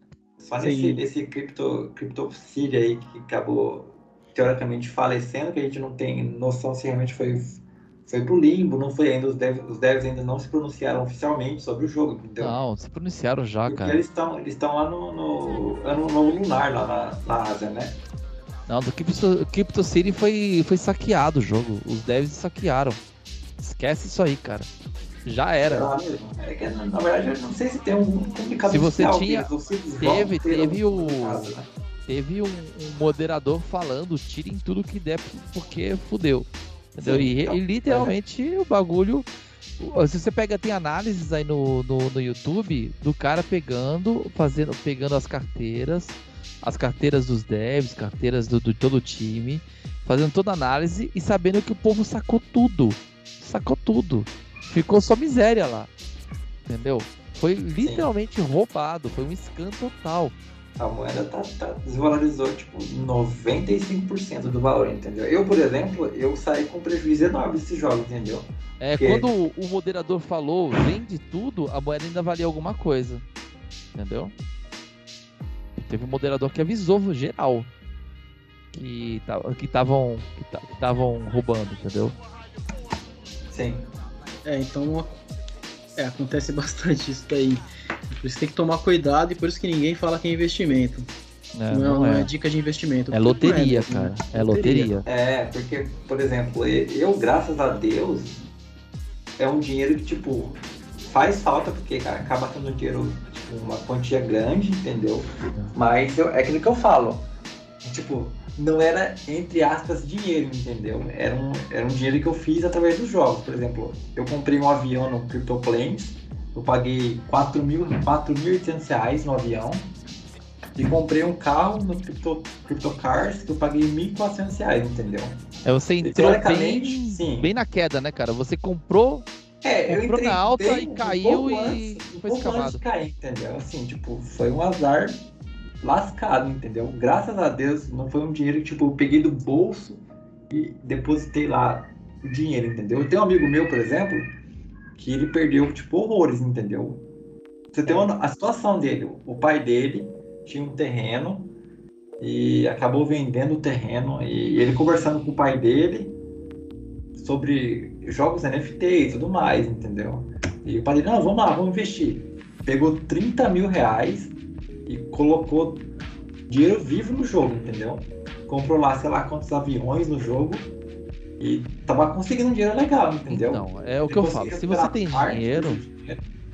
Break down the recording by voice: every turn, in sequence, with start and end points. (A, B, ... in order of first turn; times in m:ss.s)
0:00.4-0:12.6 A
0:00.6-0:01.0 B
0:12.4-0:14.0 C
0:13.7-0:18.0 A
0:18.7-0:23.0 C
0:23.6-0:24.7 C
0:25.2-0:25.9 C
0:25.7-0:31.7 A
0:28.7-0:31.5 C
0:32.1-0:55.9 C
0:37.0-0:38.2 A
0:56.7-1:00.4 C
0:57.8-0:58.1 A
1:00.8-1:09.3 A
1:08.8-1:13.2 C
1:13.9-1:14.3 C
1:15.8-1:17.7 C
1:18.7-1:22.2 C
1:23.5-1:23.9 A
1:24.4-1:25.2 B
1:26.0-1:27.6 B
1:28.2-1:31.1 B
1:31.6-1:32.3 C
1:31.7-1:34.9 B
1:33.1-1:35.1 C
1:35.1-1:38.4 A
1:39.4-1:47.3 A
1:47.8-1:59.9 A
2:00.8-2:05.4 A
2:05.6-2:09.3 C
2:06.0-2:07.5 A
2:09.6-2:15.2 A
2:09.9-2:12.8 C
2:15.8-2:24.4 A
2:25.0-2:27.1 A
2:27.7-2:31.5 A
2:32.2-2:36.2 A
2:37.2-2:44.3 A
2:44.9-2:45.9 A
2:46.5-2:50.7 A
2:51.4-2:56.3 A
2:53.3-2:55.8 C